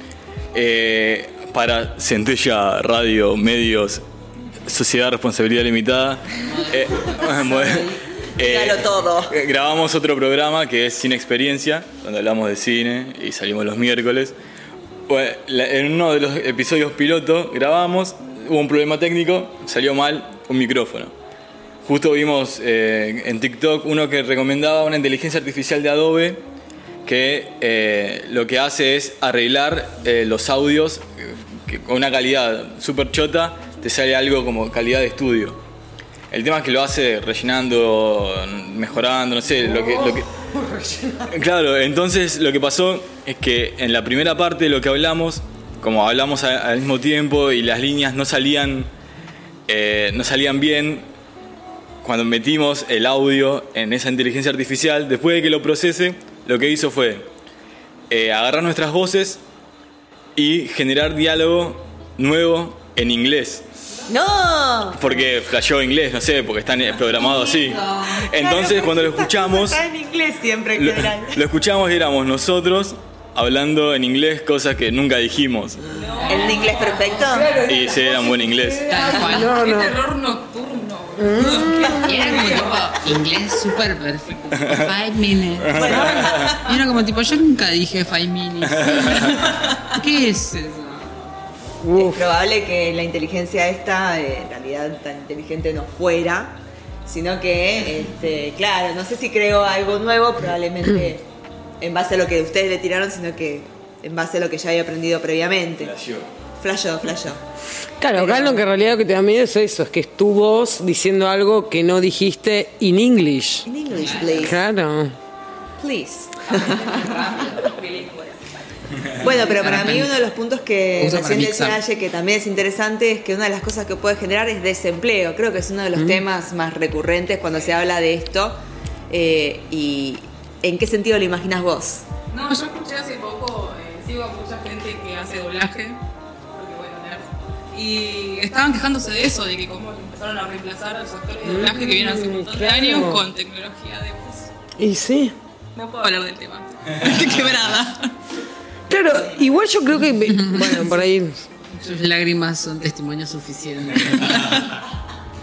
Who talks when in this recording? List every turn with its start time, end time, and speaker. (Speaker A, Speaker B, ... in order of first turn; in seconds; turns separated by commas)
Speaker A: 0.5-4.0, Speaker A: 4.7-14.3, Speaker B: 8.4-9.3, Speaker A: 15.1-21.1, Speaker A: 21.8-26.4, Speaker A: 27.0-35.6, Speaker A: 36.3-40.3, Speaker C: 39.6-41.3, Speaker A: 41.3-48.9, Speaker A: 49.7-51.0, Speaker A: 52.0-57.2, Speaker A: 58.1-59.4, Speaker A: 60.4-63.6, Speaker B: 64.1-65.2, Speaker A: 65.0-69.8, Speaker B: 68.0-71.4, Speaker A: 70.7-75.8, Speaker D: 75.9-77.1, Speaker B: 76.3-77.6, Speaker C: 76.5-80.0, Speaker A: 77.6-78.8, Speaker E: 78.9-79.5, Speaker D: 79.1-82.9, Speaker C: 81.2-82.5, Speaker E: 82.0-91.3, Speaker A: 85.6-86.5, Speaker B: 85.7-86.3, Speaker D: 86.2-86.6, Speaker C: 91.8-92.2, Speaker B: 92.0-101.2, Speaker B: 101.8-105.9, Speaker A: 105.8-106.3, Speaker B: 106.6-107.4, Speaker C: 108.0-113.7, Speaker B: 108.1-108.6, Speaker B: 113.7-114.6, Speaker E: 113.9-114.5, Speaker C: 114.4-115.2, Speaker B: 115.8-117.0, Speaker E: 116.4-118.0, Speaker D: 117.6-118.3, Speaker B: 119.2-128.6, Speaker E: 119.3-120.1, Speaker E: 121.0-121.8, Speaker B: 129.1-132.0, Speaker D: 132.3-136.0, Speaker D: 136.5-144.5, Speaker C: 141.4-143.2, Speaker C: 144.8-145.3, Speaker D: 145.7-148.1, Speaker C: 148.9-151.4, Speaker E: 150.3-150.9, Speaker E: 151.7-154.6